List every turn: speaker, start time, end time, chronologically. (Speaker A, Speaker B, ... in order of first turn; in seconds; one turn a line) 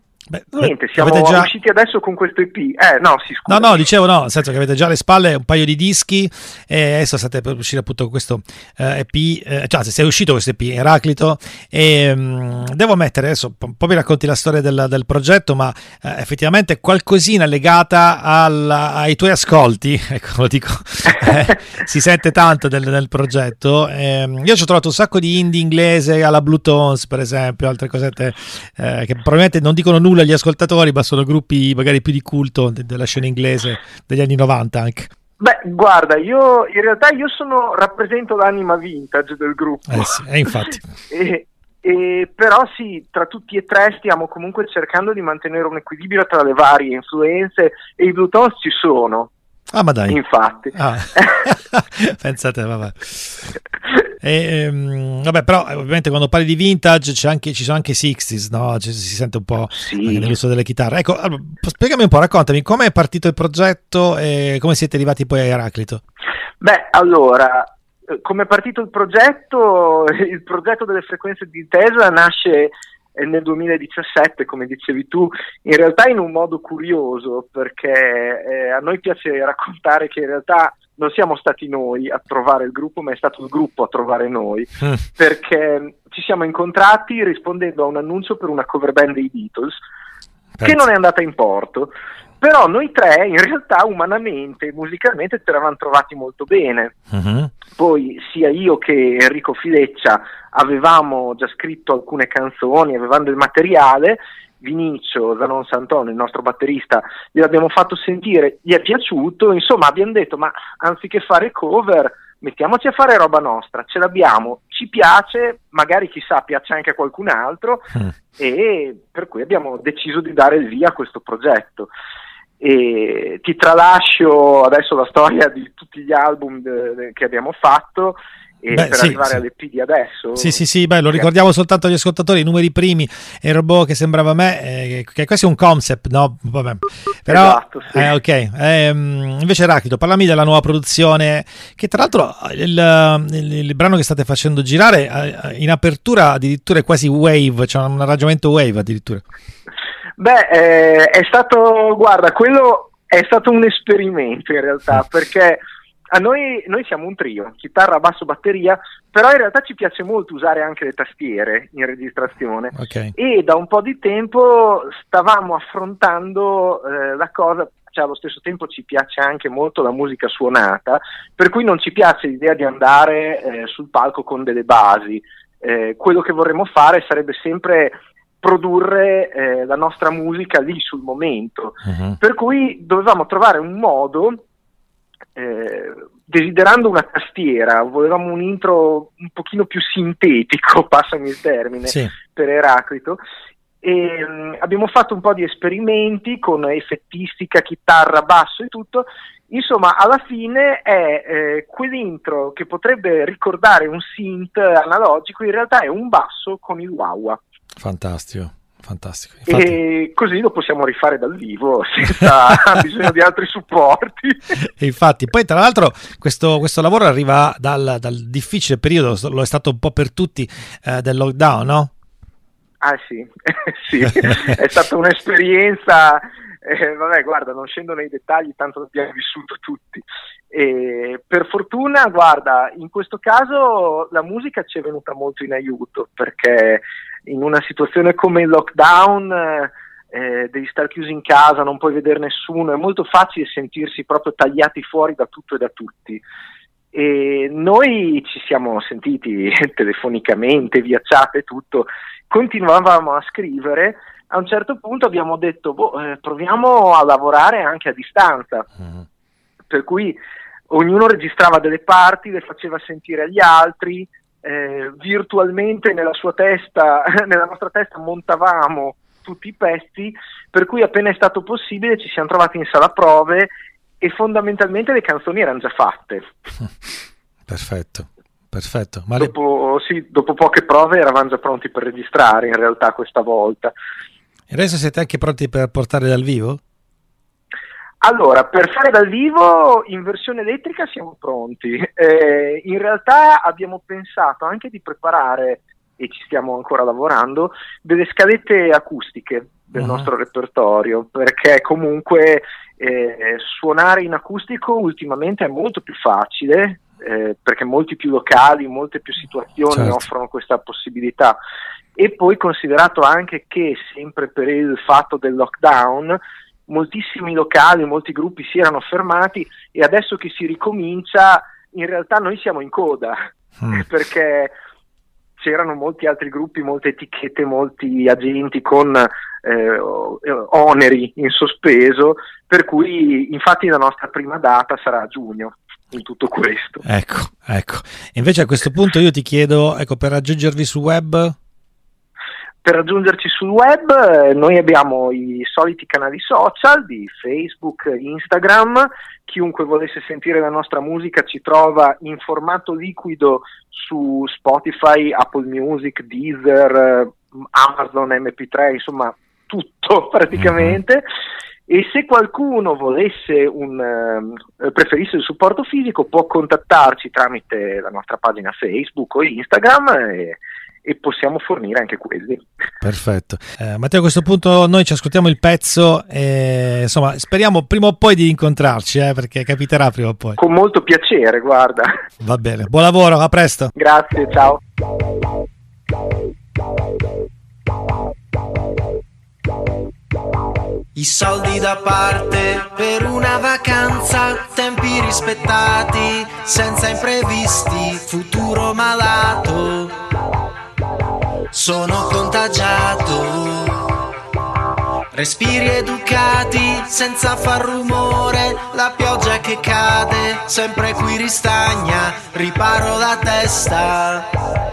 Speaker A: 0.6-3.9
Speaker B: 1.0-1.3
Speaker B: 3.5-35.1
Speaker A: 35.4-40.2
Speaker B: 40.0-40.7
Speaker A: 41.1-49.3
Speaker B: 49.7-50.2
Speaker A: 50.1-51.4
Speaker B: 50.8-51.0
Speaker B: 51.8-53.0
Speaker B: 54.2-66.0
Speaker A: 59.8-60.3
Speaker A: 66.6-89.8
Speaker B: 90.6-90.8
Speaker A: 90.6-97.0
Speaker B: 97.1-97.5
Speaker A: 97.7-121.9
Speaker A: 122.6-131.3
Speaker B: 128.8-129.4
Speaker B: 130.4-149.2
Speaker A: 137.3-138.1
Speaker A: 150.2-155.6
Speaker A: 156.1-184.4
Speaker B: 162.8-163.1
Speaker B: 181.9-182.2
Speaker A: 185.4-193.2
Speaker A: 193.8-207.4
Speaker B: 207.8-209.8
Speaker A: 209.5-214.4
Speaker B: 214.8-221.9
Speaker A: 222.8-246.2
Speaker A: 246.9-258.7
Speaker A: 259.7-260.2
Speaker A: 260.7-276.3
Speaker B: 277.5-279.3
Speaker A: 279.2-283.7
Speaker B: 284.5-286.6
Speaker A: 288.0-311.4
Speaker B: 299.8-300.1
Speaker B: 309.7-310.1
Speaker A: 312.0-324.5
Speaker A: 325.4-336.8
Speaker B: 336.9-341.4
Speaker A: 342.6-361.1
Speaker B: 360.4-360.8
Speaker A: 361.7-372.4
Speaker B: 372.8-380.4
Speaker A: 380.4-381.9
Speaker B: 382.2-383.7
Speaker A: 383.8-384.6
Speaker C: 390.9-400.0
Speaker C: 401.5-403.8
Speaker C: 405.1-414.3